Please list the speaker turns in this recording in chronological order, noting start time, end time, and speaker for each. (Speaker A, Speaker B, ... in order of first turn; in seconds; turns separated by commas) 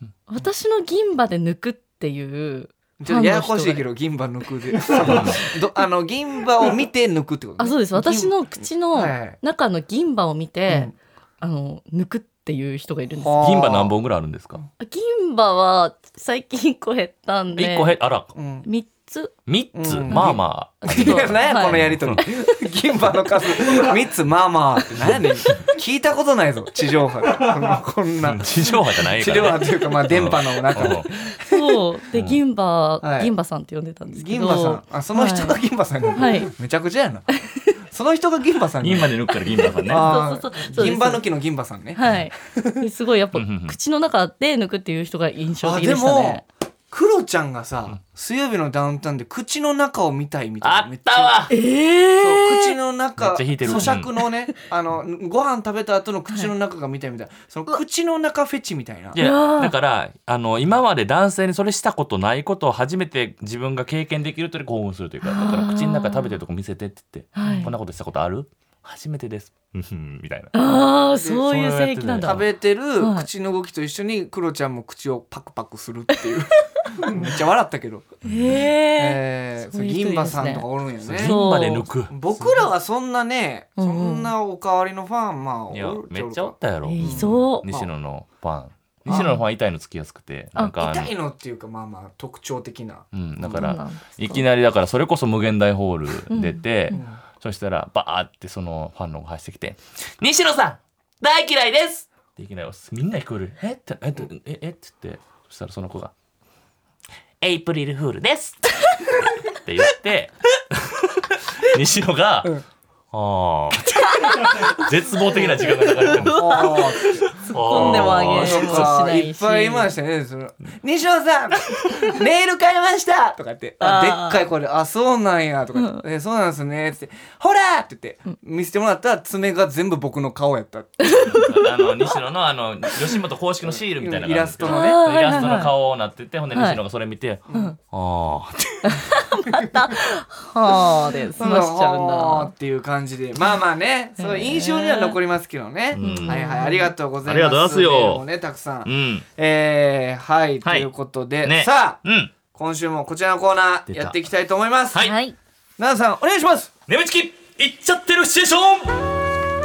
Speaker A: 0.3-3.8, Speaker B: 3.0-8.4, Speaker C: 5.0-5.4, Speaker A: 7.6-13.4, Speaker B: 8.9-9.4, Speaker B: 13.2-13.9, Speaker C: 13.4-14.6, Speaker A: 14.8-18.0, Speaker C: 17.6-18.3, Speaker B: 18.4-18.7, Speaker A: 18.6-19.3, Speaker C: 19.5-22.2, Speaker B: 19.7-31.8, Speaker A: 20.1-22.6, Speaker C: 28.2-31.1, Speaker A: 31.4-35.6, Speaker C: 32.1-32.4, Speaker B: 33.0-33.3, Speaker B: 34.1-37.3, Speaker A: 36.1-36.5, Speaker B: 37.8-39.2, Speaker C: 38.8-40.2, Speaker A: 39.8-41.2, Speaker B: 39.8-42.9, Speaker A: 42.0-46.4, Speaker C: 43.3-43.8, Speaker B: 45.6-51.5, Speaker C: 50.6-51.5, Speaker A: 51.5-52.7, Speaker B: 52.2-59.2, Speaker C: 53.2-54.1, Speaker A: 53.7-54.0, Speaker C: 59.1-70.6, Speaker A: 59.2-59.7, Speaker A: 65.2-66.3, Speaker A: 67.3-67.7, Speaker A: 70.5-72.4, Speaker B: 71.2-71.5, Speaker C: 71.4-72.5, Speaker B: 72.2-78.2, Speaker A: 73.0-73.3, Speaker A: 78.2-81.9, Speaker C: 78.2-78.6, Speaker B: 79.0-81.4, Speaker C: 81.0-82.7, Speaker B: 82.1-87.9, Speaker A: 83.8-84.3, Speaker C: 85.7-91.1, Speaker A: 86.8-87.7, Speaker A: 89.1-89.4, Speaker B: 90.8-93.7, Speaker C: 93.1-106.1, Speaker A: 93.5-94.4, Speaker A: 96.3-97.0, Speaker B: 96.9-97.2, Speaker C: 107.4-112.6, Speaker C: 113.1-118.9, Speaker A: 114.0-114.8, Speaker A: 115.6-117.0, Speaker B: 116.2-131.3, Speaker A: 117.5-119.9, Speaker A: 123.8-124.4, Speaker A: 125.8-126.0, Speaker A: 131.0-131.8, Speaker C: 131.1-139.2, Speaker B: 133.7-135.5, Speaker A: 134.6-135.7, Speaker A: 136.5-136.8, Speaker B: 137.5-137.8, Speaker A: 138.8-142.5, Speaker B: 141.3-152.0, Speaker A: 144.2-145.2, Speaker C: 145.9-146.4, Speaker A: 146.0-146.9, Speaker C: 147.2-148.2, Speaker C: 148.9-149.3, Speaker C: 150.6-150.9, Speaker C: 151.4-152.3, Speaker B: 152.5-155.1, Speaker C: 153.9-154.2, Speaker A: 155.0-155.4, Speaker B: 155.8-156.7, Speaker C: 156.9-159.0